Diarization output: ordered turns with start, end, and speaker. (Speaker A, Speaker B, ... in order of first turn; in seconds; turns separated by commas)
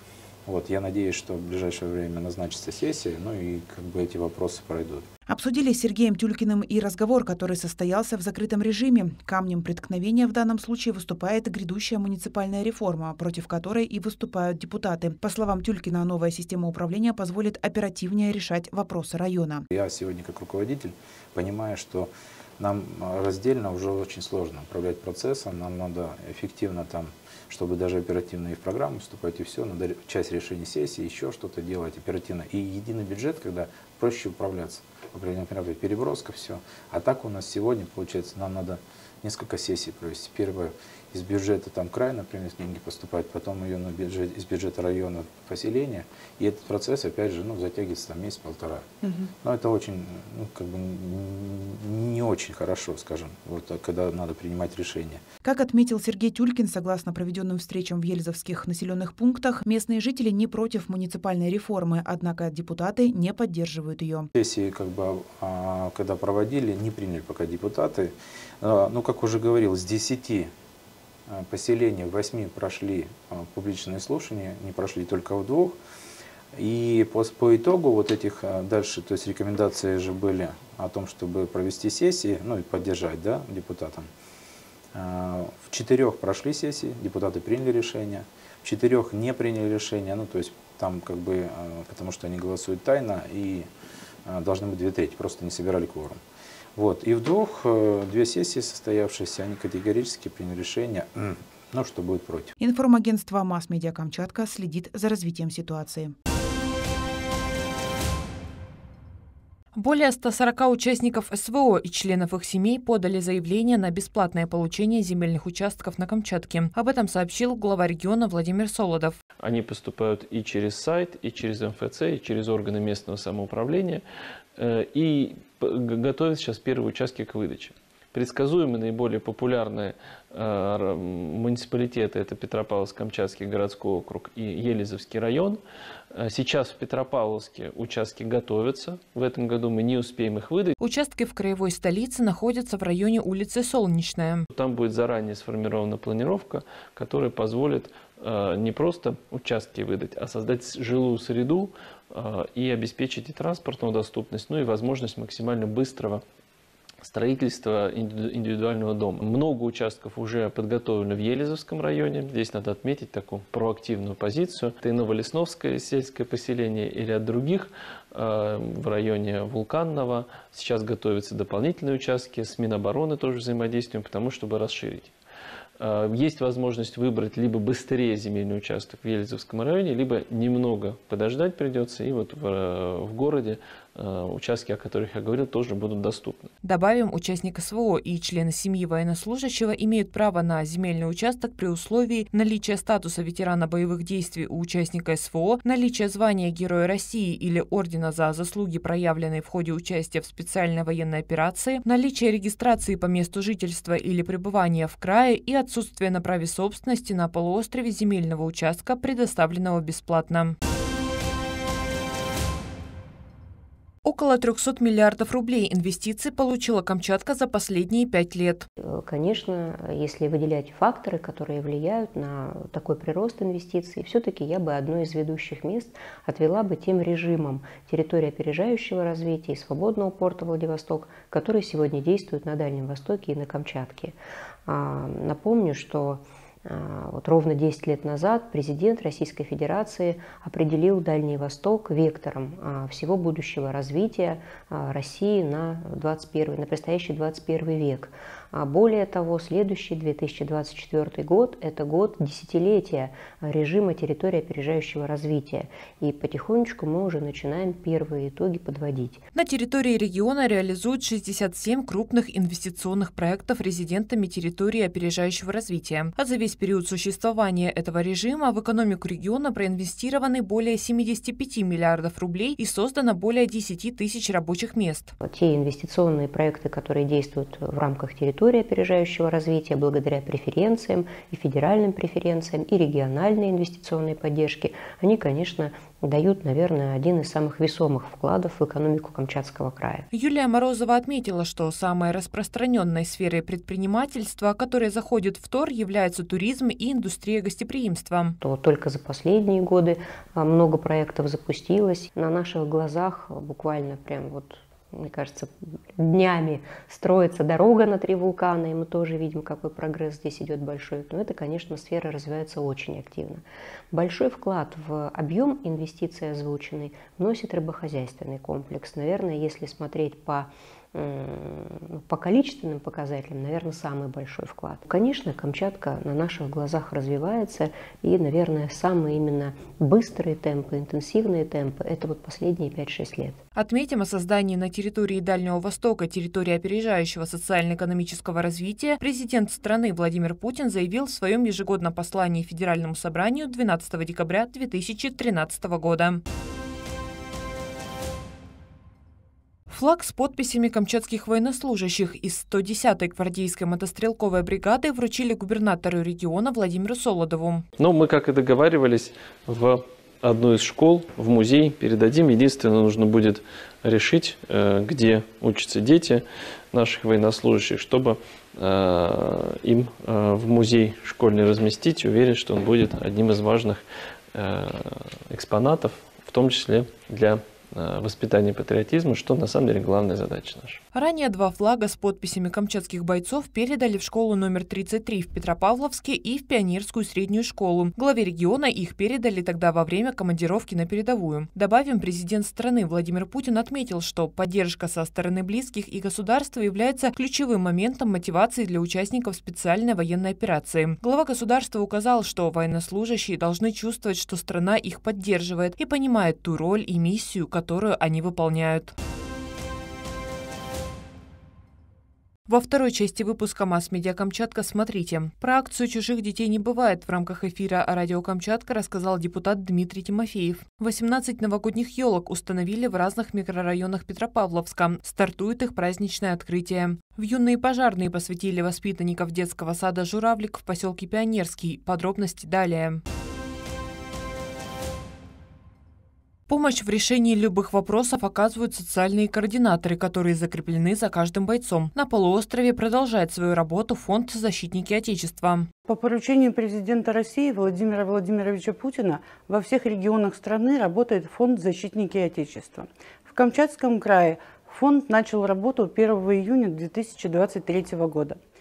Speaker A: 0.5-5.1, Speaker B: 5.3-19.6, Speaker A: 19.7-55.2, Speaker B: 55.4-64.3, Speaker A: 64.3-70.5, Speaker A: 71.3-75.8, Speaker A: 76.5-84.1, Speaker A: 84.9-93.7, Speaker A: 94.2-96.2, Speaker A: 96.8-102.5, Speaker B: 102.6-106.1, Speaker C: 109.7-119.2, Speaker D: 119.4-124.0, Speaker D: 124.5-135.6, Speaker D: 136.1-140.7, Speaker C: 140.8-144.5, Speaker D: 144.5-156.2, Speaker D: 157.0-175.1, Speaker D: 175.8-186.5, Speaker C: 186.6-210.6, Speaker C: 214.0-218.7, Speaker E: 218.8-259.2, Speaker C: 259.3-275.1, Speaker E: 275.2-290.1, Speaker C: 290.1-298.4, Speaker E: 298.4-333.4, Speaker C: 333.5-346.2, Speaker C: 349.7-357.6, Speaker D: 357.8-380.8, Speaker C: 380.9-408.9, Speaker C: 412.5-433.0, Speaker C: 436.5-445.7, Speaker F: 445.9-458.4